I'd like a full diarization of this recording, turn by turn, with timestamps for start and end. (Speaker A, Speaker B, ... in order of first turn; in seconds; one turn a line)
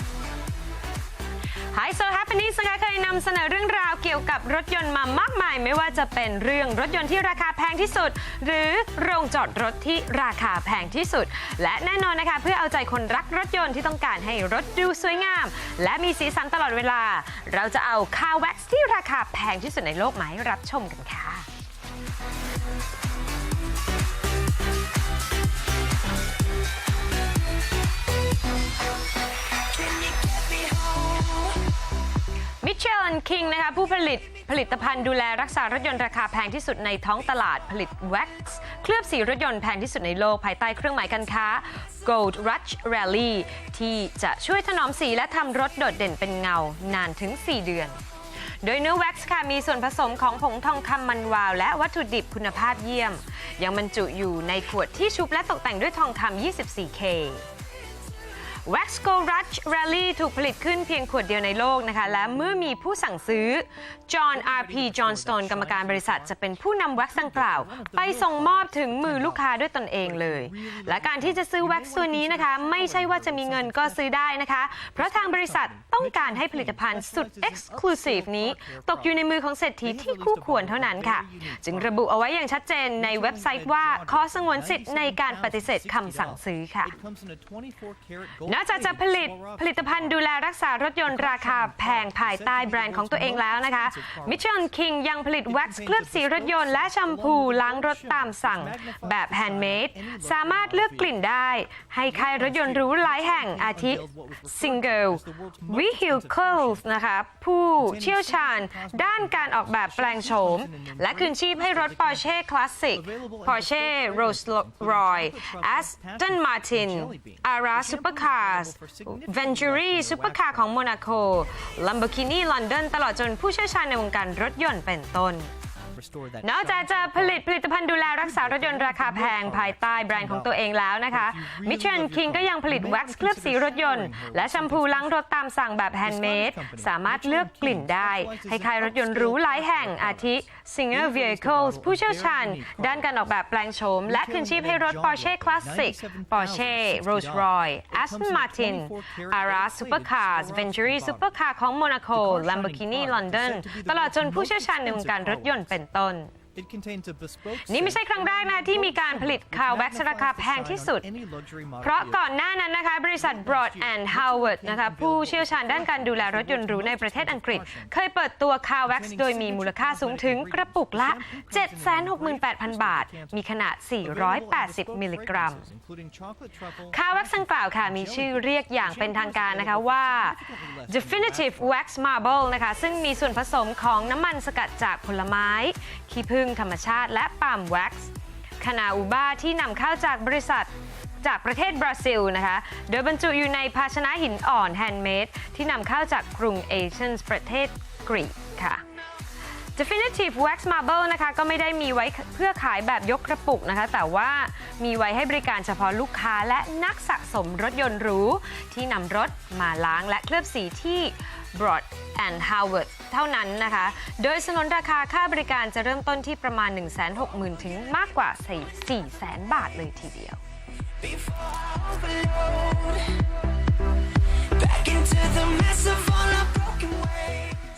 Speaker A: 1.7-21.5
Speaker B: 29.8-31.6
Speaker A: 32.6-48.0
Speaker A: 48.6-57.5
Speaker A: 58.6-86.9
Speaker C: 64.3-66.4
Speaker C: 67.0-69.5
Speaker C: 70.0-74.1
Speaker C: 75.0-79.2
Speaker C: 79.8-82.0
Speaker C: 83.0-90.2
Speaker A: 88.5-125.5
Speaker C: 91.0-94.5
Speaker C: 95.4-101.2
Speaker C: 102.1-106.9
Speaker C: 107.8-112.3
Speaker C: 112.9-121.1
Speaker C: 125.9-130.5
Speaker A: 126.4-156.3
Speaker C: 131.1-135.2
Speaker C: 136.0-143.1
Speaker C: 144.1-151.3
Speaker C: 152.1-155.7
Speaker C: 156.5-162.3
Speaker A: 157.7-161.1
Speaker A: 161.8-175.7
Speaker C: 163.2-167.9
Speaker C: 168.9-173.5
Speaker C: 174.0-181.8
Speaker A: 176.9-190.7
Speaker A: 191.2-198.8
Speaker A: 199.8-220.4
Speaker B: 221.0-223.3
Speaker B: 224.4-227.6